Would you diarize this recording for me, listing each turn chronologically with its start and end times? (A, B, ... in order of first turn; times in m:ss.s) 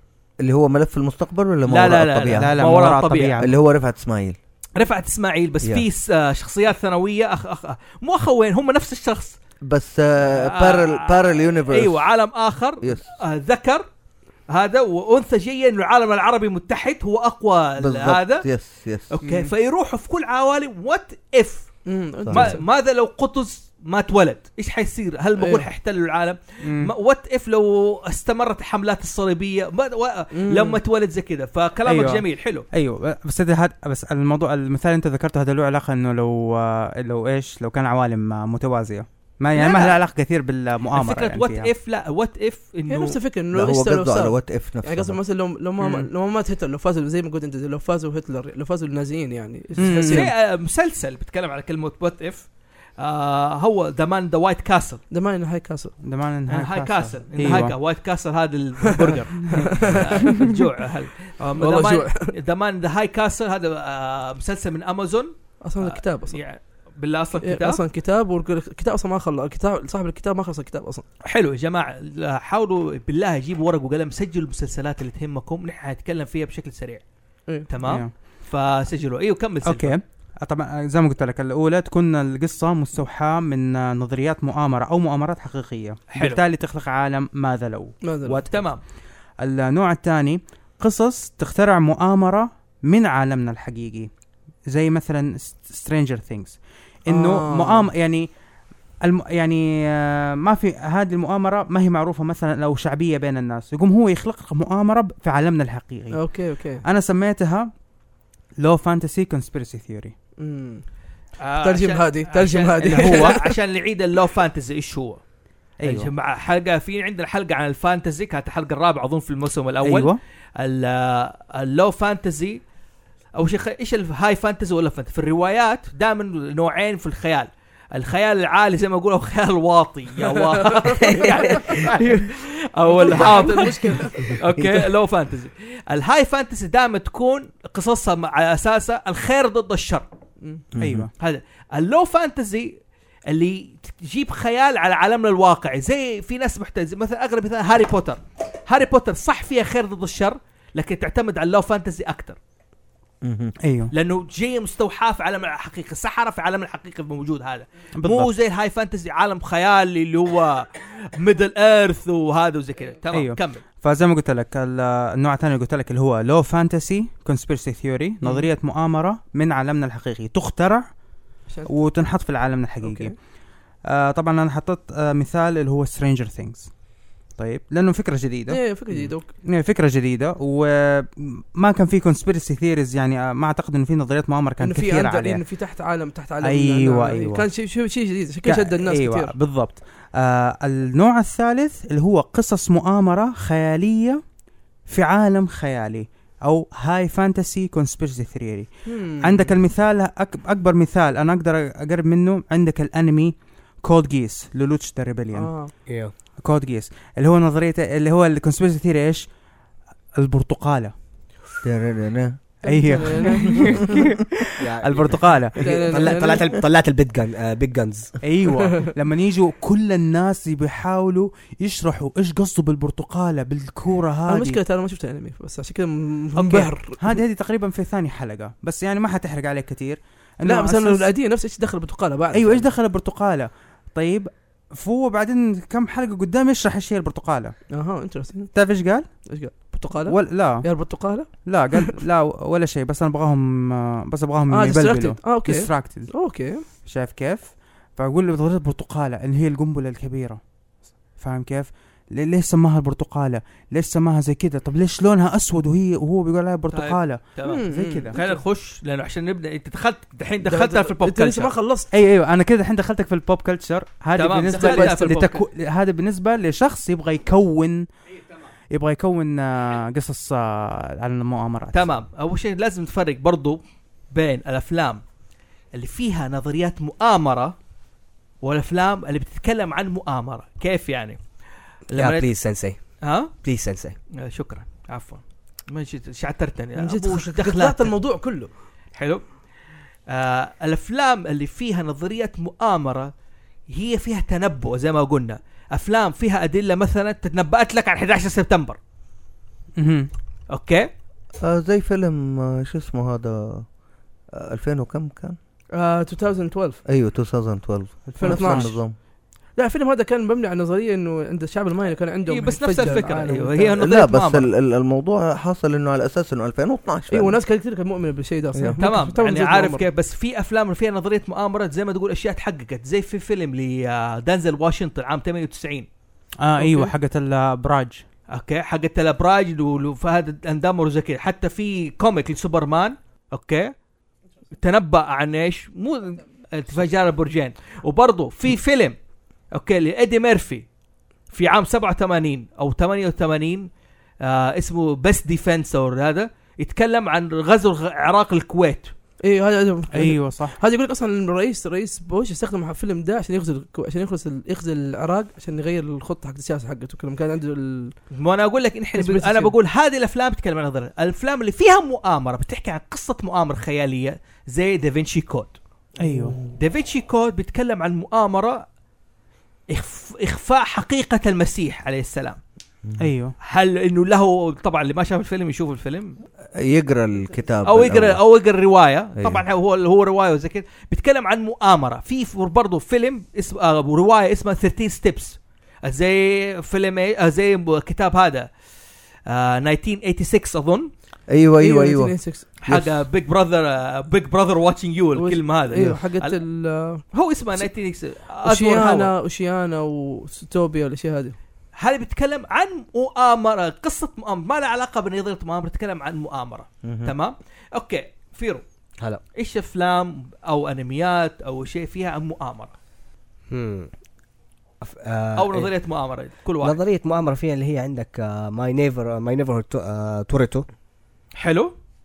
0:00.4-0:02.6 A
0:01.7-0:03.4 B
0:02.3-0:03.5 C
0:03.4-0:04.4 A
0:04.8-0:09.4 B
0:09.6-0:12.0 A
0:10.2-0:13.9 B
0:12.8-0:13.1 A
0:14.5-0:18.5 B
0:17.8-0:19.2 A
0:19.1-0:21.7 B
0:21.9-0:22.6 D
0:22.2-0:22.5 A
0:22.3-0:32.7 B
0:25.4-0:25.7 D
0:26.6-0:26.9 C
0:30.4-0:30.8 D
0:31.9-0:41.7 C
0:39.6-0:40.0 B
0:40.9-0:43.2 B
0:42.9-0:50.3 D
0:43.5-0:45.2 A
0:45.8-0:46.1 C
0:49.8-0:50.3 C
0:50.0-0:55.0 B
0:55.1-0:56.0 D
0:56.0-0:57.8 C
0:56.5-1:07.8 B
0:58.9-1:00.3 D
0:59.5-0:59.8 C
1:01.6-1:02.3 D
1:05.6-1:06.4 D
1:07.4-1:11.0 D
1:11.2-1:17.0 B
1:17.7-1:20.0 B
1:17.8-1:18.1 C
1:19.6-1:28.5 C
1:26.1-1:26.4 B
1:28.0-1:28.4 D
1:28.5-1:28.8 B
1:29.4-1:34.1 C
1:34.7-1:38.3 C
1:37.1-1:37.9 D
1:39.0-1:47.7 C
1:46.1-1:46.8 D
1:48.6-1:50.2 C
1:50.4-1:50.8 D
1:51.4-1:55.2 B
1:51.6-1:53.6 D
1:52.9-1:53.4 C
1:55.8-1:56.1 C
1:55.8-2:02.6 B
1:59.8-2:00.2 C
2:03.4-2:20.1 B
2:10.5-2:12.0 D
2:12.9-2:14.4 D
2:20.7-2:21.1 A
2:20.8-2:21.1 C
2:21.2-2:32.4 B
2:33.2-2:33.6 A
2:33.6-2:33.9 C
2:33.9-2:43.6 B
2:38.0-2:38.3 C
2:43.1-2:50.9 C
2:51.7-2:53.2 C
2:52.8-2:53.2 D
2:53.9-2:56.7 C
2:57.4-2:58.6 C
2:58.5-2:59.3 D
2:59.4-3:05.4 C
3:04.6-3:09.3 D
3:06.4-3:07.5 C
3:08.5-3:14.2 C
3:14.9-3:25.5 C
3:18.9-3:19.5 D
3:25.3-3:25.7 D
3:26.4-3:29.3 C
3:30.2-3:30.9 C
3:31.6-3:32.4 A
3:32.6-3:34.0 D
3:32.7-3:36.1 C
3:34.6-3:38.2 E
3:35.6-3:36.6 D
3:38.2-3:44.6 C
3:38.5-3:38.9 D
3:44.3-3:47.2 D
3:46.4-3:51.1 C
3:50.4-3:52.7 D
3:52.3-3:57.6 C
3:57.7-3:58.5 D
3:58.5-3:59.1 C
3:59.3-4:02.0 D
4:00.1-4:00.7 C
4:01.3-4:06.1 C
4:04.5-4:06.6 D
4:06.8-4:10.4 C
4:11.2-4:18.2 C
4:16.7-4:21.5 B
4:17.4-4:18.4 D
4:20.4-4:21.9 D
4:21.9-4:27.9 C
4:24.2-4:25.4 B
4:24.5-4:25.2 D
4:28.7-4:31.9 C
4:31.7-4:33.6 B
4:34.1-4:35.0 B
4:35.7-4:37.6 B
4:38.4-4:41.2 B
4:41.9-4:42.3 B
4:42.0-4:42.8 E
4:43.0-4:43.3 B
4:43.4-4:44.0 E
4:44.1-4:47.9 B
4:46.8-4:48.5 D
4:48.9-4:49.2 B
4:50.1-4:53.1 B
4:53.7-4:58.8 B
4:59.8-5:00.1 C
5:00.5-5:00.9 B
5:01.4-5:03.7 A
5:04.3-5:05.4 A
5:05.8-5:06.8 D
5:06.9-5:09.0 A
5:08.1-5:08.8 C
5:08.2-5:08.8 D
5:09.6-5:13.9 D
5:12.3-5:14.5 B
5:13.8-5:17.4 A
5:17.1-5:19.8 D
5:18.8-5:25.9 B
5:26.4-5:28.0 C
5:26.6-5:26.9 D
5:28.3-5:33.7 B
5:34.6-5:39.0 B
5:39.5-5:40.7 B
5:41.3-5:43.7 B
5:44.2-5:48.9 B
5:49.2-5:58.0 D
5:49.9-5:50.6 C
5:58.1-6:05.6 B
5:59.0-5:59.5 D
6:06.0-6:06.4 C
6:06.6-6:08.6 B
6:09.7-6:12.4 B
6:13.0-6:13.4 C
6:13.4-6:16.2 B
6:16.6-6:18.2 A
6:17.6-6:28.5 B
6:19.2-6:19.4 A
6:29.3-6:30.9 B
6:31.3-6:33.0 A
6:31.6-6:32.5 D
6:32.6-6:36.4 B
6:35.2-6:37.0 D
6:37.1-6:39.1 B
6:38.4-6:41.4 D
6:41.8-6:48.6 B
6:46.8-6:47.1 A
6:49.4-6:52.7 B
6:53.5-6:53.9 E
6:54.8-6:55.7 E
6:55.4-6:56.8 B
6:56.6-7:00.7 E
7:01.4-7:01.7 B